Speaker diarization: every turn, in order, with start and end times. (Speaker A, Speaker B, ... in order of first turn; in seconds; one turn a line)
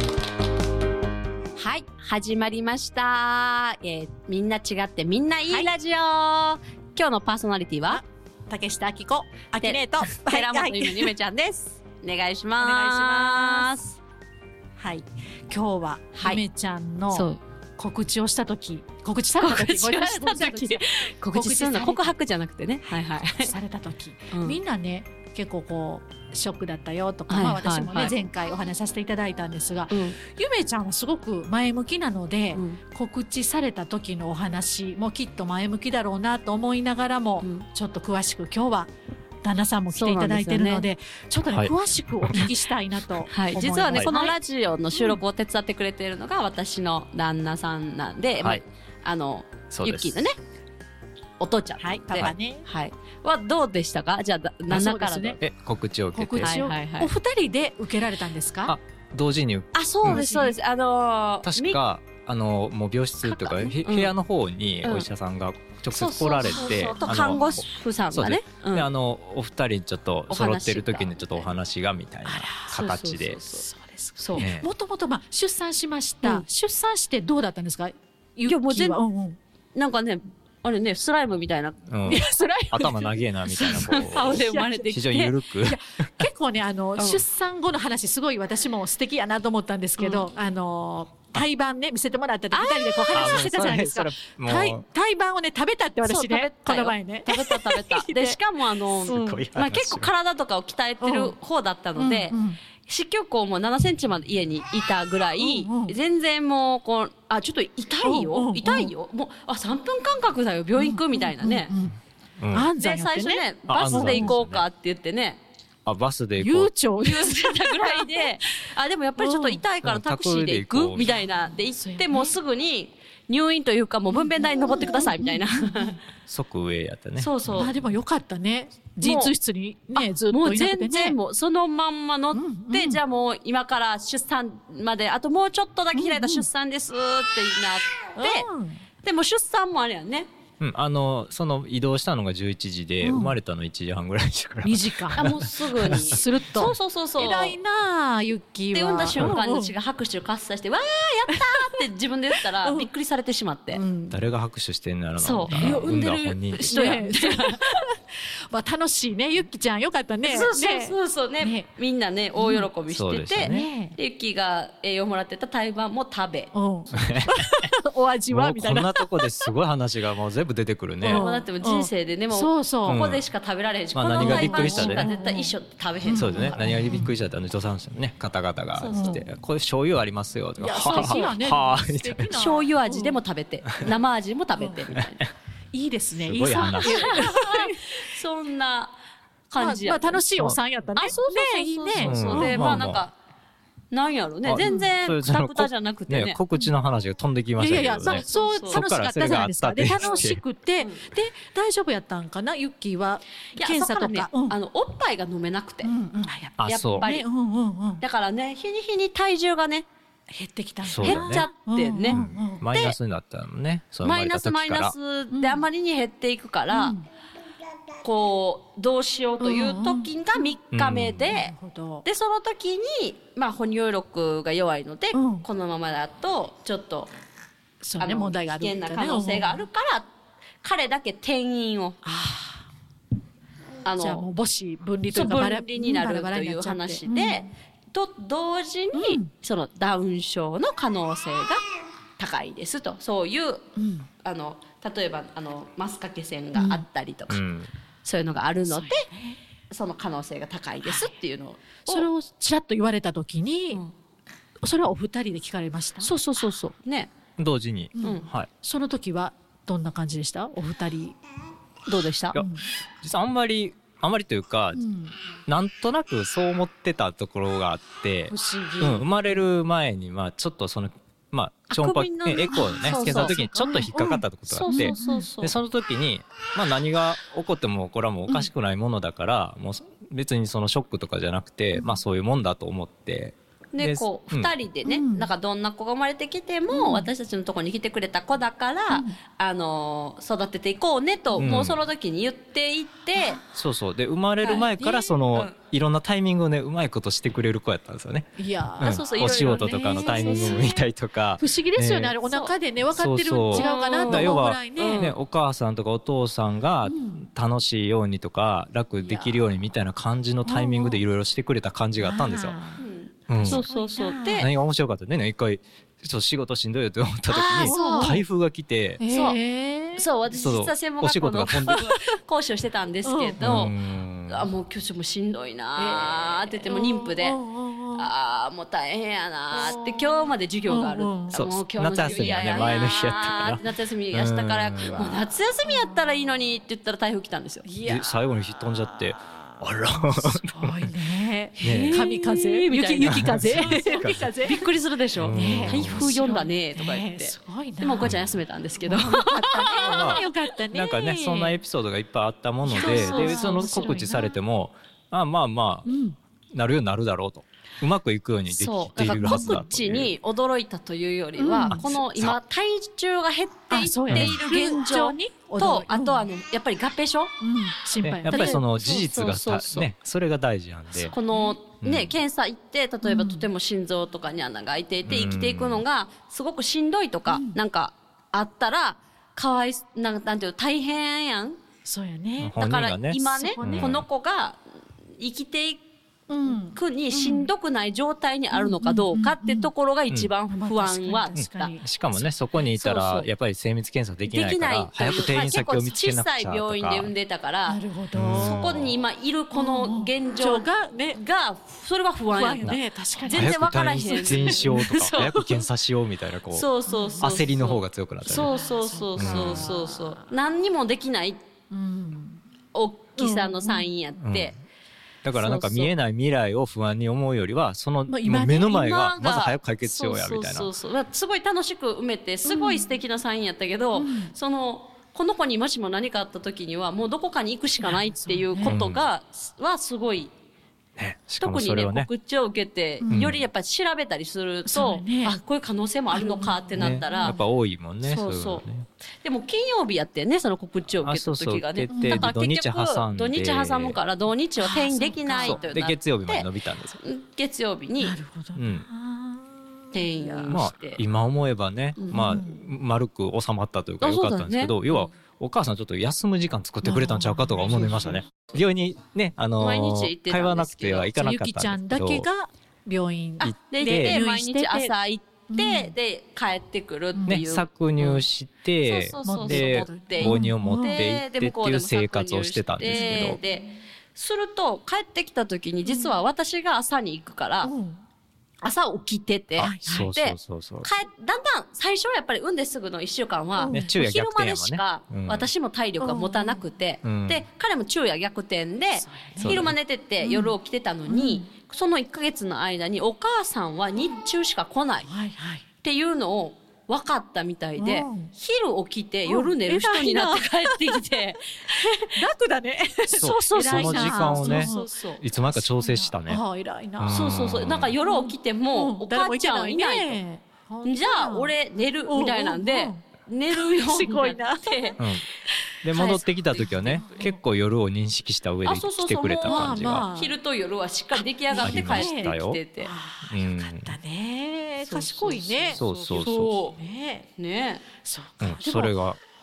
Speaker A: 1.6-8.0
Speaker B: 7.9-11.1
Speaker A: 9.6-14.0
Speaker B: 12.6-13.7
Speaker B: 14.8-22.1
Speaker A: 16.2-16.4
Speaker A: 17.1-17.4
Speaker A: 19.4-23.5
Speaker B: 23.4-38.9
Speaker A: 24.3-24.6
Speaker A: 27.3-28.1
Speaker A: 29.9-30.2
Speaker A: 32.5-32.8
Speaker A: 37.4-37.7
Speaker B: 39.4-44.4
Speaker A: 39.9-40.9
Speaker C: 41.5-42.5
Speaker A: 43.3-50.4
Speaker B: 44.9-45.2
Speaker C: 49.7-50.3
Speaker A: 51.4-55.4
Speaker B: 51.8-52.6
Speaker B: 54.7-55.4
Speaker C: 55.4-56.6
Speaker B: 56.1-58.8
Speaker A: 56.4-57.1
Speaker C: 58.7-60.2
Speaker A: 59.7-61.8
Speaker B: 60.0-60.6
Speaker C: 61.5-73.4
Speaker A: 63.2-64.1
Speaker A: 65.9-68.9
Speaker B: 66.4-67.6
Speaker A: 70.3-71.5
Speaker B: 72.2-72.8
Speaker A: 72.7-73.7
Speaker B: 73.5-79.4
Speaker A: 74.2-74.5
Speaker C: 74.4-74.7
Speaker A: 78.5-79.0
Speaker A: 79.8-83.0
Speaker C: 81.9-86.3
Speaker B: 82.1-84.9
Speaker A: 83.6-85.4
Speaker B: 85.6-98.4
Speaker A: 87.0-87.2
Speaker A: 90.0-90.3
Speaker A: 92.5-93.8
Speaker C: 93.1-94.8
Speaker A: 96.0-111.7
Speaker B: 99.0-99.5
Speaker C: 99.0-100.1
Speaker B: 101.0-101.3
Speaker B: 102.0-102.6
Speaker B: 105.4-106.0
Speaker B: 108.0-108.9
Speaker B: 110.8-112.0
Speaker C: 112.4-112.7
Speaker B: 112.5-114.4
Speaker A: 112.8-115.4
Speaker C: 113.7-114.7
Speaker C: 115.9-116.7
Speaker B: 116.4-118.3
Speaker A: 117.0-126.0
Speaker B: 119.2-119.6
Speaker C: 119.8-121.2
Speaker B: 121.7-122.4
Speaker B: 124.7-126.0
Speaker C: 126.3-127.3
Speaker A: 127.2-127.7
Speaker B: 127.5-131.2
Speaker A: 129.0-129.3
Speaker A: 129.9-138.5
Speaker B: 132.3-133.0
Speaker B: 135.9-136.5
Speaker B: 138.2-138.8
Speaker A: 139.0-140.3
Speaker C: 140.6-146.7
Speaker B: 143.0-143.4
Speaker B: 144.6-145.3
Speaker A: 145.2-147.6
Speaker B: 146.0-149.7
Speaker A: 148.7-153.8
Speaker C: 149.0-149.4
Speaker B: 151.3-151.8
Speaker B: 152.6-152.9
Speaker B: 153.7-154.2
Speaker C: 154.1-157.1
Speaker A: 155.2-157.8
Speaker B: 155.5-155.9
Speaker B: 156.6-157.9
Speaker B: 158.5-161.7
Speaker A: 160.2-166.5
Speaker B: 162.4-162.7
Speaker C: 162.9-163.7
Speaker B: 163.5-164.0
Speaker B: 166.5-169.5
Speaker C: 166.9-167.7
Speaker C: 168.3-171.3
Speaker B: 171.0-173.1
Speaker A: 171.0-176.6
Speaker C: 172.9-173.2
Speaker C: 173.9-175.1
Speaker B: 174.2-175.5
Speaker B: 176.1-177.1
Speaker C: 176.1-182.4
Speaker A: 178.8-179.2
Speaker B: 178.9-179.2
Speaker B: 180.6-183.2
Speaker A: 180.8-181.4
Speaker A: 182.3-185.2
Speaker B: 184.6-184.8
Speaker B: 185.7-188.0
Speaker C: 186.2-187.3
Speaker A: 186.6-188.9
Speaker A: 189.5-190.2
Speaker B: 189.6-192.9
Speaker A: 190.9-193.2
Speaker C: 192.0-193.1
Speaker A: 193.9-196.4
Speaker C: 194.4-200.4
Speaker B: 194.6-194.9
Speaker B: 197.6-204.6
Speaker A: 197.9-198.9
Speaker A: 200.8-201.1
Speaker A: 203.6-205.9
Speaker B: 205.8-208.0
Speaker C: 206.6-207.1
Speaker A: 206.7-207.3
Speaker A: 208.0-209.9
Speaker B: 210.3-212.7
Speaker C: 210.8-211.5
Speaker A: 211.0-213.0
Speaker C: 212.1-214.9
Speaker A: 214.0-217.0
Speaker B: 215.3-215.7
Speaker B: 216.7-217.0
Speaker A: 218.0-227.1
Speaker B: 219.4-220.5
Speaker C: 220.7-221.3
Speaker B: 221.3-222.1
Speaker B: 225.1-225.4
Speaker B: 227.8-229.7
Speaker A: 228.0-230.1
Speaker A: 230.6-232.0
Speaker B: 232.0-232.7
Speaker A: 233.8-234.3
Speaker B: 234.0-237.5
Speaker A: 235.1-241.6
Speaker B: 238.9-239.3
Speaker A: 242.2-243.6
Speaker B: 243.8-244.1
Speaker A: 244.2-247.4
Speaker B: 246.5-246.8
Speaker C: 247.3-247.7
Speaker A: 248.1-249.1
Speaker B: 248.7-249.4
Speaker A: 249.7-252.1
Speaker B: 250.8-251.1
Speaker B: 251.9-253.8
Speaker B: 254.6-256.1
Speaker A: 256.0-257.1
Speaker C: 257.4-258.5
Speaker B: 257.9-261.2
Speaker A: 258.0-258.3
Speaker A: 261.9-262.4
Speaker B: 262.4-262.7
Speaker C: 263.0-264.8
Speaker B: 264.7-265.1
Speaker C: 265.5-284.5
Speaker B: 268.3-269.4
Speaker A: 271.7-273.4
Speaker B: 272.5-275.3
Speaker A: 274.5-275.6
Speaker A: 283.7-293.4
Speaker B: 284.9-285.3
Speaker B: 286.7-287.1
Speaker B: 288.9-289.2
Speaker C: 291.4-291.8
Speaker C: 293.5-302.2
Speaker A: 294.4-294.7
Speaker B: 294.8-295.2
Speaker B: 298.4-300.7
Speaker A: 298.8-300.8
Speaker B: 301.4-305.1
Speaker A: 302.2-302.6
Speaker C: 302.9-312.6
Speaker A: 303.5-305.2
Speaker B: 306.8-307.2
Speaker B: 309.0-309.4
Speaker B: 310.4-311.0
Speaker B: 312.0-314.5
Speaker A: 312.8-314.5
Speaker C: 313.3-313.6
Speaker C: 314.4-319.0
Speaker A: 317.3-318.2
Speaker B: 317.6-318.2
Speaker B: 319.0-320.1
Speaker A: 319.1-319.4
Speaker A: 320.0-323.8
Speaker C: 320.3-321.8
Speaker B: 321.7-322.2
Speaker B: 323.0-323.6
Speaker C: 323.4-324.5
Speaker A: 324.3-327.4
Speaker B: 325.8-328.1
Speaker A: 327.9-337.7
Speaker B: 329.5-331.4
Speaker C: 331.3-335.2
Speaker B: 335.6-336.2
Speaker B: 337.6-344.6
Speaker C: 337.8-340.9
Speaker A: 341.6-350.3
Speaker C: 341.6-342.1
Speaker C: 343.0-344.3
Speaker C: 345.2-346.1
Speaker B: 345.3-348.2
Speaker C: 348.0-348.3
Speaker B: 348.8-351.6
Speaker C: 349.7-355.9
Speaker B: 352.6-354.4
Speaker A: 352.7-354.2
Speaker B: 355.9-356.2
Speaker C: 356.5-360.1
Speaker A: 358.5-367.4
Speaker B: 359.0-359.7
Speaker B: 361.4-361.9
Speaker C: 361.6-362.4
Speaker B: 363.7-366.3
Speaker C: 364.1-364.4
Speaker B: 367.4-368.6
Speaker C: 368.0-371.1
Speaker A: 368.3-369.9
Speaker A: 370.9-381.6
Speaker B: 371.3-371.6
Speaker C: 371.8-372.1
Speaker B: 373.0-373.4
Speaker C: 375.1-375.8
Speaker B: 377.3-377.6
Speaker B: 381.9-382.6
Speaker C: 382.4-384.1
Speaker A: 382.6-384.6
Speaker B: 383.2-384.0
Speaker A: 385.2-385.8
Speaker B: 386.3-387.5
Speaker A: 386.4-391.7
Speaker B: 388.5-389.7
Speaker B: 390.5-392.2
Speaker C: 391.3-397.1
Speaker A: 392.7-393.3
Speaker A: 394.3-405.5
Speaker B: 397.7-398.9
Speaker C: 398.1-398.9
Speaker B: 399.5-401.2
Speaker B: 402.3-405.4
Speaker C: 402.6-406.7
Speaker A: 406.5-411.4
Speaker B: 406.9-407.5
Speaker C: 407.2-408.5
Speaker B: 408.3-410.3
Speaker C: 409.2-409.7
Speaker B: 411.7-412.4
Speaker A: 412.7-414.5
Speaker B: 413.2-413.9
Speaker C: 414.2-414.6
Speaker C: 415.2-420.7
Speaker A: 415.3-415.9
Speaker B: 418.1-418.9
Speaker A: 418.6-430.3
Speaker B: 422.4-423.0
Speaker B: 423.9-424.3
Speaker B: 427.8-428.8
Speaker C: 428.6-429.1
Speaker C: 431.0-432.1
Speaker A: 431.4-437.4
Speaker B: 433.0-433.3
Speaker C: 433.1-433.4
Speaker B: 434.7-435.4
Speaker B: 436.1-437.4
Speaker C: 436.8-438.9
Speaker A: 438.0-438.6
Speaker A: 439.2-446.5
Speaker C: 440.9-444.0
Speaker B: 441.9-442.3
Speaker B: 444.6-445.7
Speaker C: 445.4-447.0
Speaker A: 447.0-448.2
Speaker B: 448.0-450.6
Speaker C: 448.6-448.9
Speaker A: 449.9-451.0
Speaker C: 450.5-462.3
Speaker B: 452.1-452.7
Speaker A: 454.0-455.1
Speaker B: 456.8-458.2
Speaker A: 459.6-461.1
Speaker B: 461.2-464.9
Speaker A: 463.4-468.3
Speaker C: 463.4-464.2
Speaker B: 465.5-465.9
Speaker B: 467.2-467.4
Speaker C: 467.3-473.4
Speaker A: 468.9-477.7
Speaker B: 469.2-471.1
Speaker B: 472.8-473.7
Speaker B: 475.9-476.2
Speaker B: 477.6-478.0
Speaker A: 478.6-495.1
Speaker B: 479.6-480.2
Speaker C: 479.6-480.9
Speaker B: 483.6-483.9
Speaker C: 483.7-485.5
Speaker B: 486.0-486.6
Speaker C: 487.0-487.4
Speaker B: 488.9-489.7
Speaker C: 489.4-489.8
Speaker B: 490.2-490.6
Speaker B: 491.1-491.5
Speaker B: 495.1-495.6
Speaker A: 495.8-501.9
Speaker B: 497.8-498.3
Speaker B: 499.2-501.0
Speaker B: 501.7-504.9
Speaker A: 503.2-505.2
Speaker C: 503.2-506.4
Speaker B: 505.5-507.2
Speaker C: 507.0-507.9
Speaker A: 507.1-510.2
Speaker B: 508.0-511.5
Speaker A: 510.9-515.0
Speaker B: 512.0-515.0
Speaker C: 515.0-515.3
Speaker C: 515.8-520.1
Speaker A: 515.9-517.0
Speaker B: 516.5-517.4
Speaker A: 518.6-522.9
Speaker B: 519.4-520.4
Speaker B: 521.1-527.3
Speaker C: 521.6-522.6
Speaker C: 523.3-524.0
Speaker A: 524.8-526.8
Speaker C: 525.7-526.5
Speaker A: 527.4-527.8
Speaker B: 528.0-529.0
Speaker C: 528.4-529.2